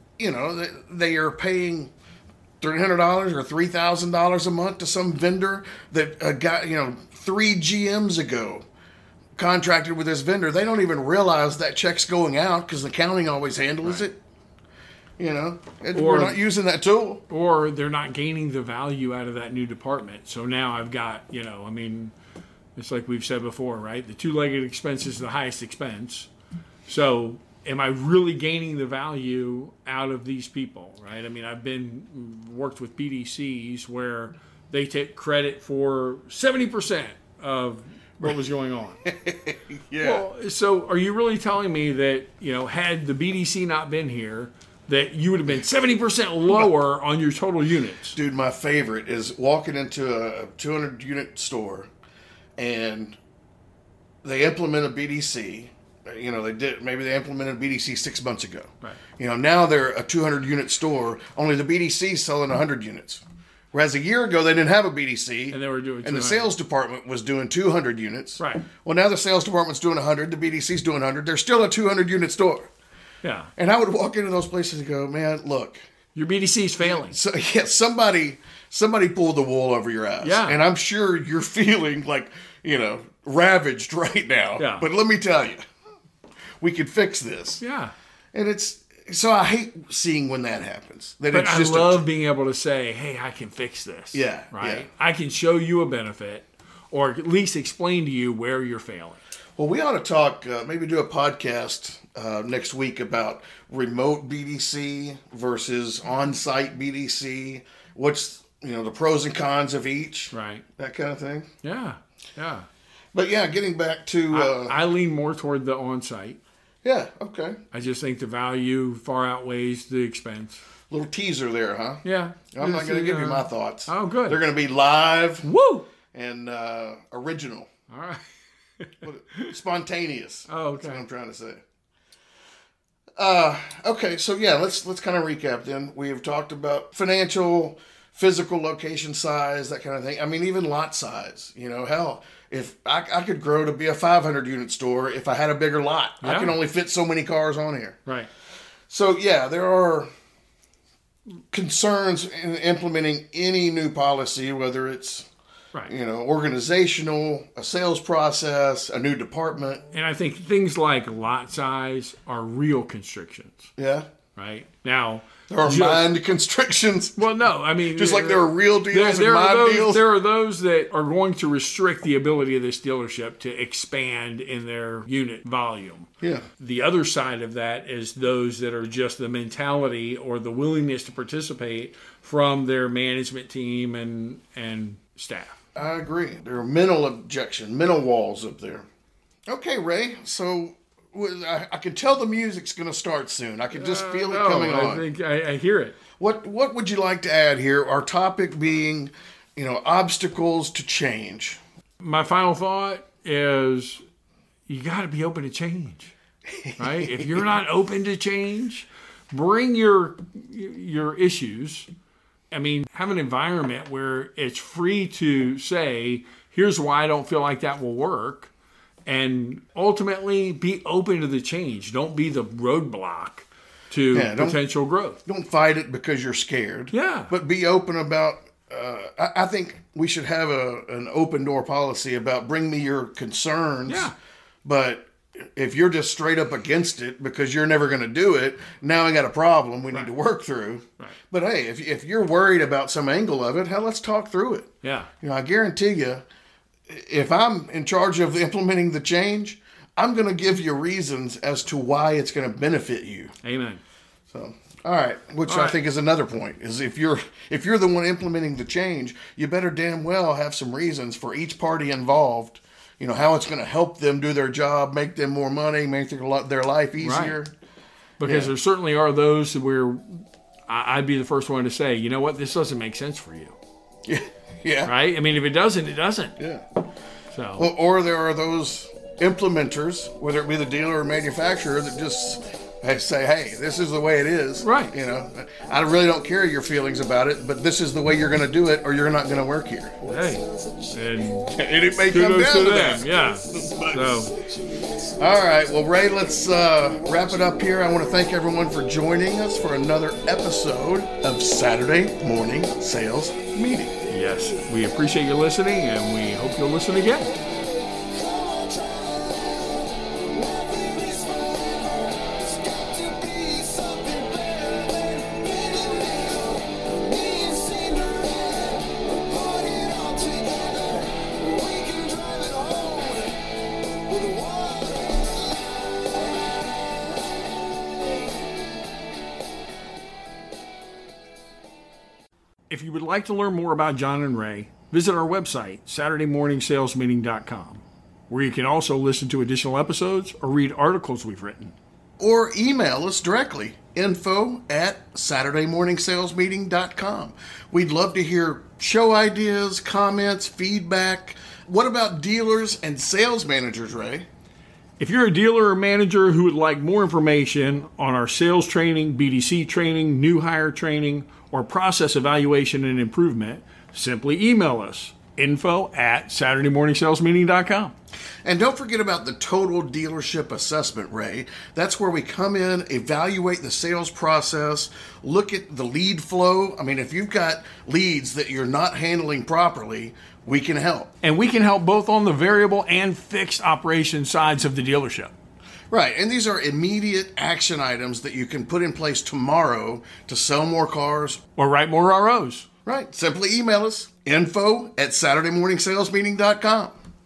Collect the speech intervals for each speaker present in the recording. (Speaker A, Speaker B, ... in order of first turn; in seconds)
Speaker A: 0.2-1.9, 2.6-8.6, 9.3-14.2, 15.2-17.2, 39.0-40.2, 48.1-51.9, 52.6-53.2, 54.2-72.7, 73.5-75.8, 76.8-85.6, 86.6-87.6, 88.3-92.0, 94.1-94.9, 99.5-111.5, 113.1-114.8, 116.8-117.6, 120.9-125.5, 126.1-127.7, 129.0-131.6, 133.2-148.0, 148.9-150.1, 151.5-155.3, 155.9-159.8, 163.8-164.1, 165.5-167.2, 167.9-170.0, 176.2-176.4, 185.7-188.9, 189.5-195.1, 196.2-201.6, 206.6-207.4, 224.1-224.6, 225.2-234.1, 234.6-246.2, 246.9-253.3, 254.3-267.5, 268.2-268.5, 274.1-274.9, 276.4-276.6, 277.6-290.0, 291.5-294.2, 295.2-303.9, 342.2-354.3, 368.4-381.1, 385.9-391.4, 392.9-396.9
Speaker B: 15.9-16.4, 17.3-22.1, 22.8-26.3, 26.9-39.0, 40.0-48.2, 65.5-66.5, 68.4-68.7, 73.2-73.5, 76.1-77.2, 80.2-80.6, 84.6-84.9, 87.6-87.9, 91.3-99.2, 110.3-110.6, 111.6-112.7, 114.3-116.4, 117.7-120.6, 122.0-124.4, 125.4-125.9, 127.9-128.3, 128.8-129.5, 130.5-131.0, 146.2-146.6, 159.9-163.7, 164.3-166.1, 167.2-185.6, 193.7-196.0, 202.0-204.0, 204.7-206.1, 206.8-211.9, 212.5-218.5, 219.1-225.2, 226.9-227.3, 233.9-234.1, 244.8-245.1, 253.4-253.8, 255.5-255.8, 267.0-267.4, 268.2-273.6, 274.9-276.4, 277.3-277.7, 284.6-284.9, 290.0-291.5, 292.1-294.3, 304.1-307.3, 332.7-341.7, 355.0-367.9, 381.2-385.3, 391.6-392.7
Speaker C: 290.1-291.6, 293.1-295.1, 307.8-327.4